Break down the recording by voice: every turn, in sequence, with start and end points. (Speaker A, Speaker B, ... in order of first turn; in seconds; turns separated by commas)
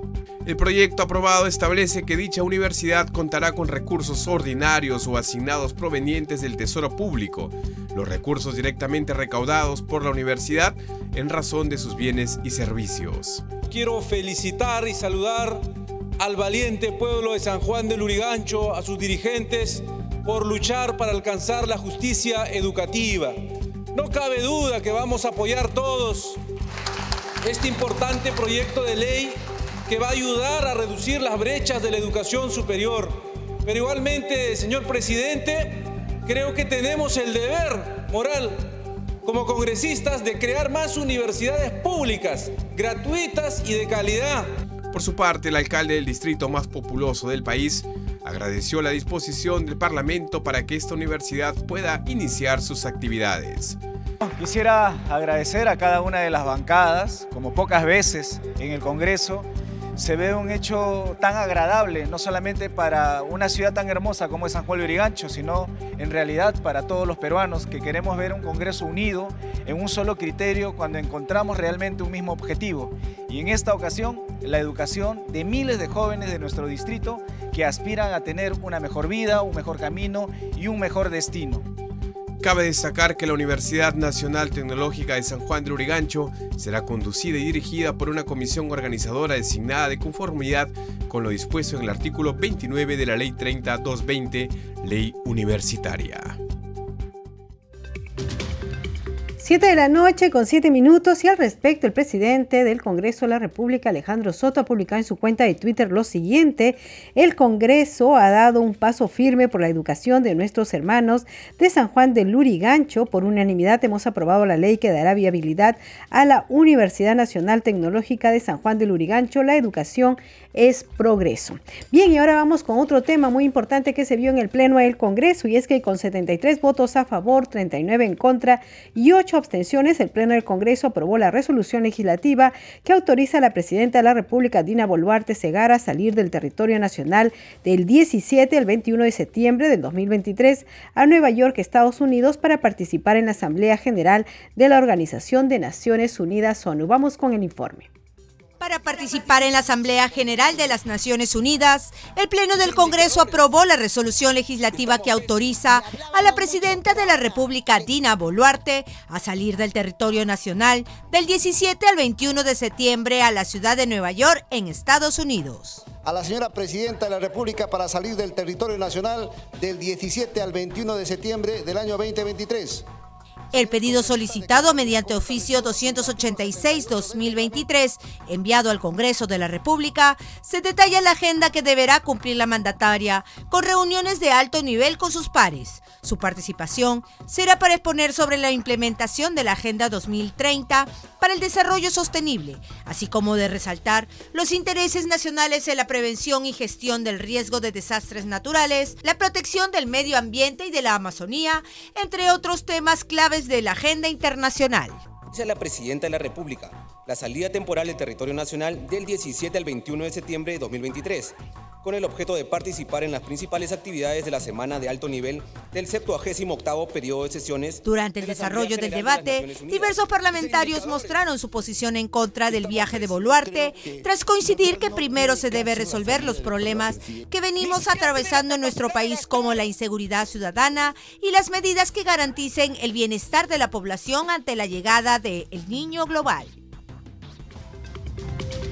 Speaker A: 0.4-13.4, Speaker B: 13.7-15.7, Speaker B: 16.2-23.4, Speaker B: 23.9-26.4, Speaker B: 27.4-38.7, Speaker B: 39.2-44.5, Speaker A: 44.9-53.8, Speaker C: 54.2-81.6, Speaker A: 82.4-96.4, Speaker D: 99.4-147.9, Speaker E: 148.6-165.8, Speaker F: 166.0-172.8, Speaker E: 173.5-205.0, Speaker F: 173.8-177.0, Speaker G: 205.3-221.2, Speaker E: 217.8-236.5